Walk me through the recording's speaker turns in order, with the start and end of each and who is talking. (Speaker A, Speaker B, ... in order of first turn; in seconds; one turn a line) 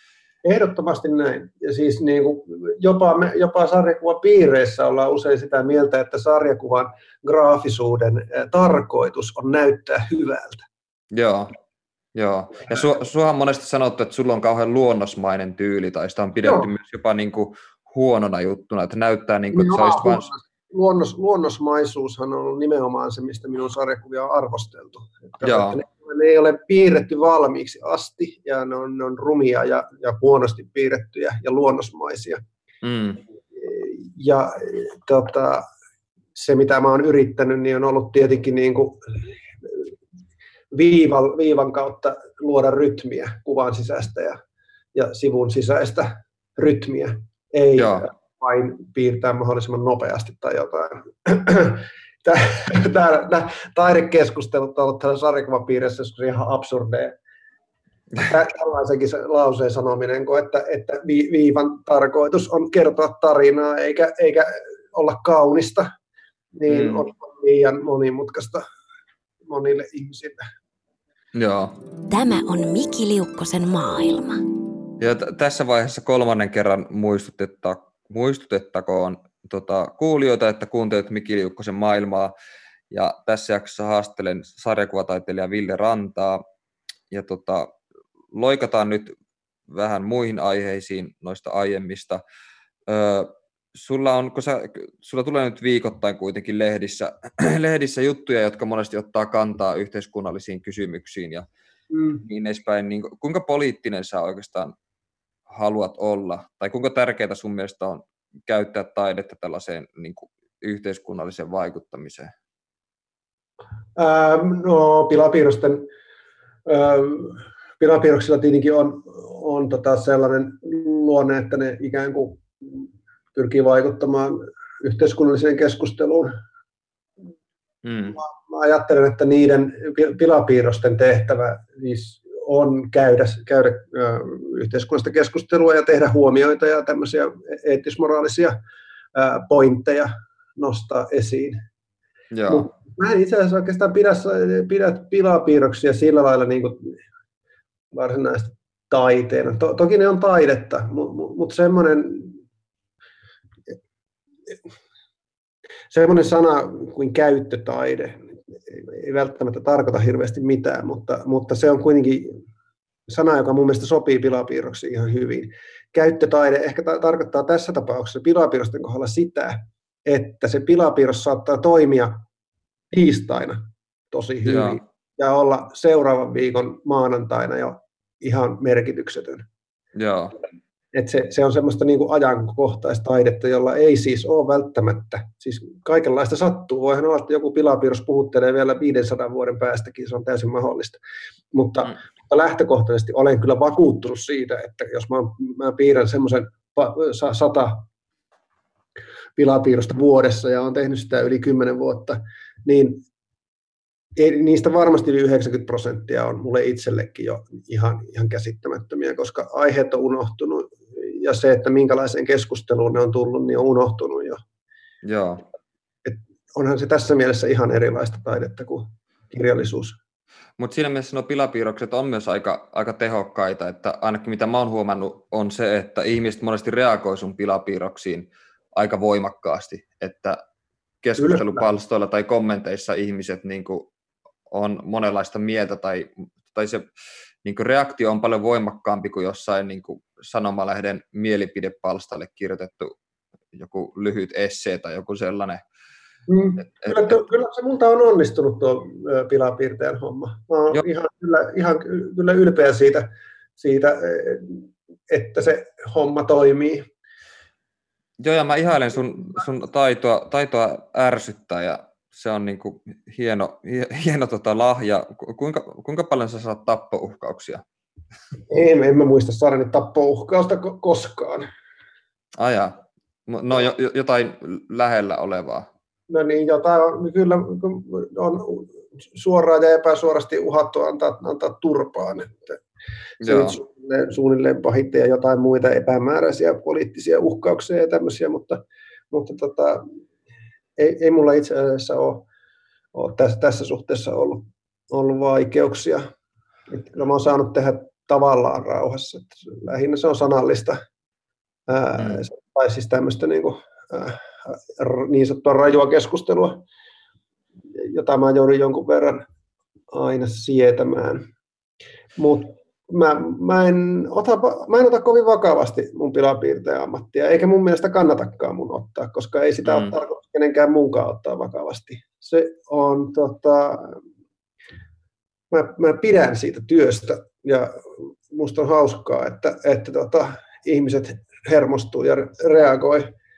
Speaker A: 0.4-10.7
Speaker B: 11.1-11.5
Speaker B: 12.1-20.3
Speaker A: 16.4-16.7
Speaker A: 19.5-32.4
Speaker B: 25.4-25.8
Speaker B: 32.8-33.2
Speaker A: 33.5-35.6
Speaker A: 36.3-39.9
Speaker A: 40.7-44.4
Speaker A: 44.9-57.1
Speaker B: 47.8-48.0
Speaker A: 58.2-65.9
Speaker A: 66.5-68.6
Speaker B: 66.7-67.0
Speaker A: 69.5-70.5
Speaker B: 71.3-71.7
Speaker C: 72.1-74.4
Speaker B: 75.0-82.3
Speaker B: 82.9-86.4
Speaker B: 87.1-87.7
Speaker B: 88.3-89.1
Speaker B: 89.7-92.2
Speaker B: 92.9-101.5
Speaker A: 101.9-102.2
Speaker B: 102.2-104.7
Speaker B: 105.5-112.3
Speaker A: 114.0-115.8
Speaker A: 116.7-126.3
Speaker B: 127.8-128.2
Speaker A: 128.1-138.5
Speaker A: 139.1-141.6
Speaker B: 142.3-142.7
Speaker A: 142.5-147.0
Speaker A: 147.9-152.4
Speaker A: 155.9-162.4
Speaker A: 163.1-172.2
Speaker A: 172.9-179.4
Speaker B: 174.4-174.8
Speaker B: 179.9-180.3
Speaker A: 180.9-191.0
Speaker A: 191.5-197.8
Speaker A: 199.3-203.0
Speaker A: 204.2-214.4
Speaker B: 215.0-215.4
Speaker A: 216.0-220.0
Speaker B: 220.6-230.4
Speaker B: 231.0-233.9
Speaker A: 231.2-231.7
Speaker B: 234.5-236.9
Speaker B: 237.4-242.9
Speaker B: 243.5-245.6
Speaker A: 246.3-256.9
Speaker B: 246.6-247.1
Speaker B: 258.2-267.6
Speaker A: 268.5-271.5
Speaker B: 272.4-275.7
Speaker A: 276.1-282.6
Speaker B: 283.2-283.6
Speaker A: 283.2-289.8
Speaker A: 290.8-292.3
Speaker A: 292.9-296.1
Speaker A: 296.7-300.8
Speaker A: 301.7-306.6
Speaker B: 301.9-302.2
Speaker A: 307.7-309.2
Speaker A: 309.9-311.2
Speaker A: 312.2-324.0
Speaker B: 319.6-319.9
Speaker A: 325.5-333.1